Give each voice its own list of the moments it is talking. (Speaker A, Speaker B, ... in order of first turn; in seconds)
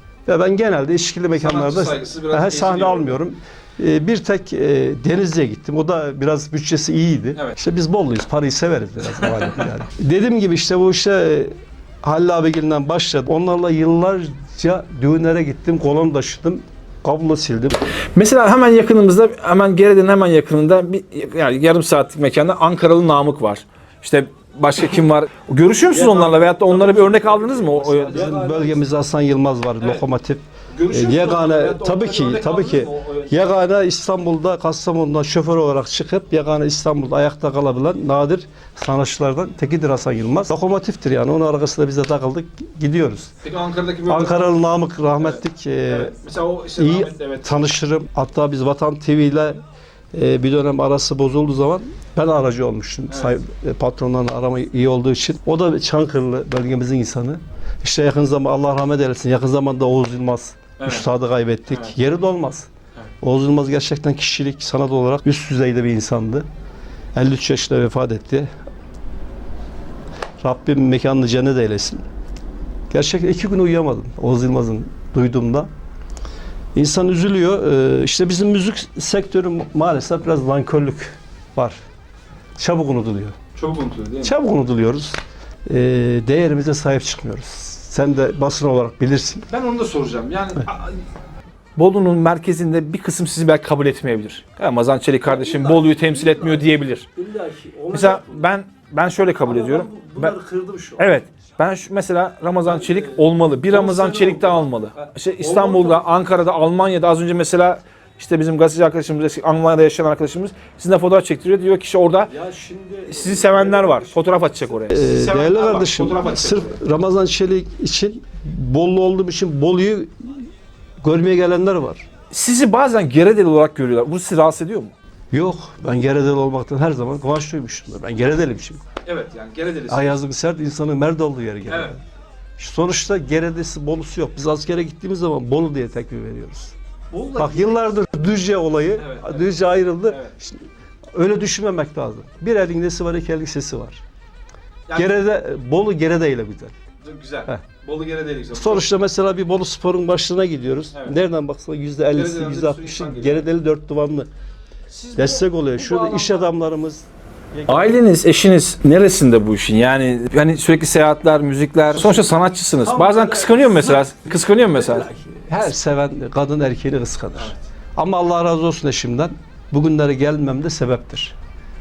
Speaker A: 0.2-17.8, 25.9-43.3, 44.0-46.2, 46.8-49.5, 50.1-62.7, 63.2-66.5, 67.1-68.5, 70.4-72.0, 72.9-75.7, 76.7-81.8, 82.6-83.4, 84.2-89.5, 95.2-98.5, 99.4-101.1, 102.6-106.1, 112.3-120.3, 121.0-122.0, 125.3-128.8, 129.9-132.0, 132.6-136.7, 137.3-144.0, 144.9-146.7, 148.5-154.3, 155.2-158.0, 162.0-162.2, 162.8-164.1, 164.7-171.3
Speaker B: 1.4-3.2, 18.1-28.7, 30.7-33.4, 43.4-44.5, 45.2-47.5, 53.1-53.4, 60.8-61.0, 83.5-84.3, 89.5-91.0, 91.8-97.1, 97.9-100.3, 101.0-112.3, 113.1-116.8, 122.3-124.9, 129.0-130.2, 131.7-131.9, 137.1-137.8, 139.0-139.5, 140.1-140.3, 144.9-145.1, 147.0-148.8, 152.1-153.5, 154.9-156.5, 157.7-165.1